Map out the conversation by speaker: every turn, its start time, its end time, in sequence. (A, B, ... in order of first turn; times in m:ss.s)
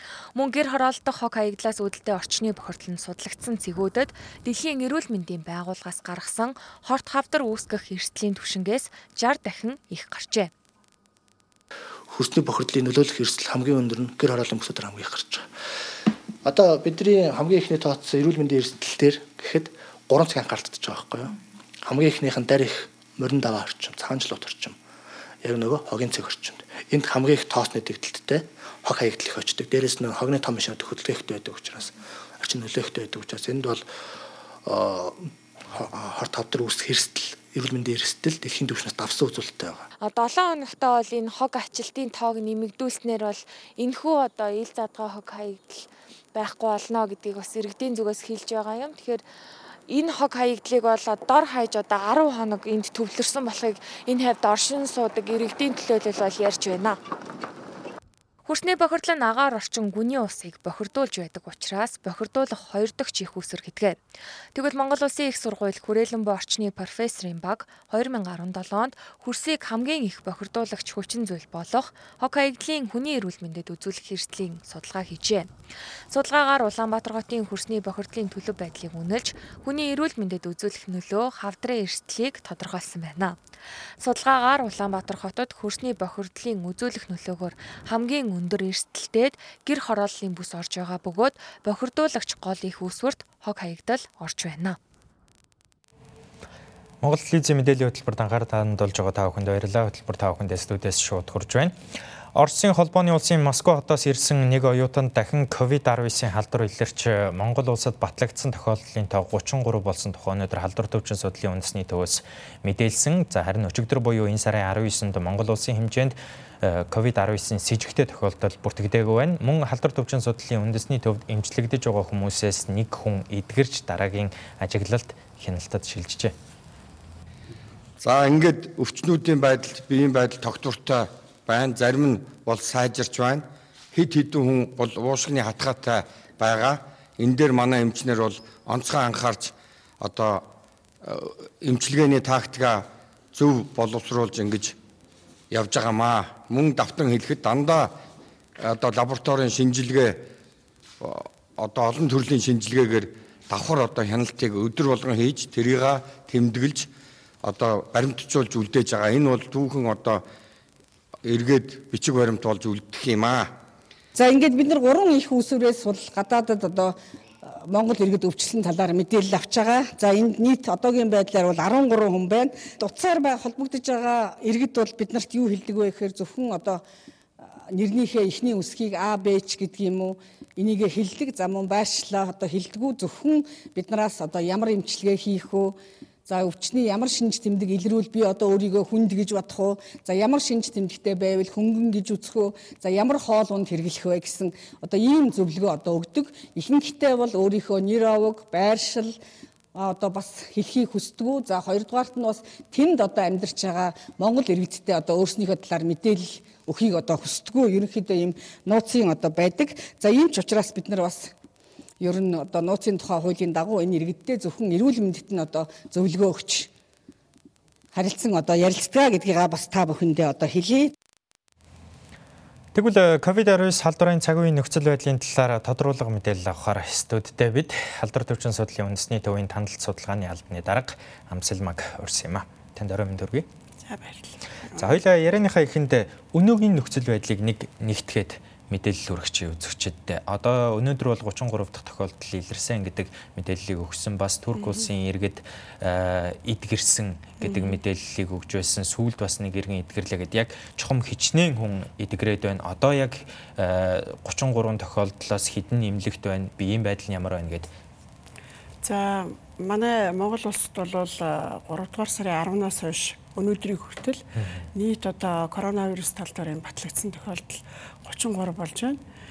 0:00.4-0:10.5 A
0:12.1-0:15.5 B
0:16.4-0:24.8 B
0:25.4-0:33.9 B
0:34.6-0:39.9 B
0:40.0-0:49.2 A
0:49.9-0:57.0 A
0:58.5-1:04.0 A
1:04.5-1:15.5 A
1:16.1-1:23.4 A
1:24.0-1:34.8 A
1:37.0-1:41.8 C
1:42.4-2:06.3 C
2:08.0-2:20.5 D
2:21.0-2:24.8 D
2:25.5-2:28.0 D
2:28.6-2:30.3 D
2:31.0-2:36.9 D
2:37.4-2:40.2 D
2:41.2-2:43.5 D
2:44.1-2:56.8 E
2:57.7-3:19.2 E
3:19.7-3:31.3 E
3:32.0-3:36.7 E
3:37.9-3:40.9 E
3:42.7-3:53.5 C
3:53.8-3:55.0 F
3:54.8-4:17.7 C
4:04.6-4:04.8 F
4:07.4-4:07.8 F
4:18.8-4:29.0 F
4:24.4-4:24.7 C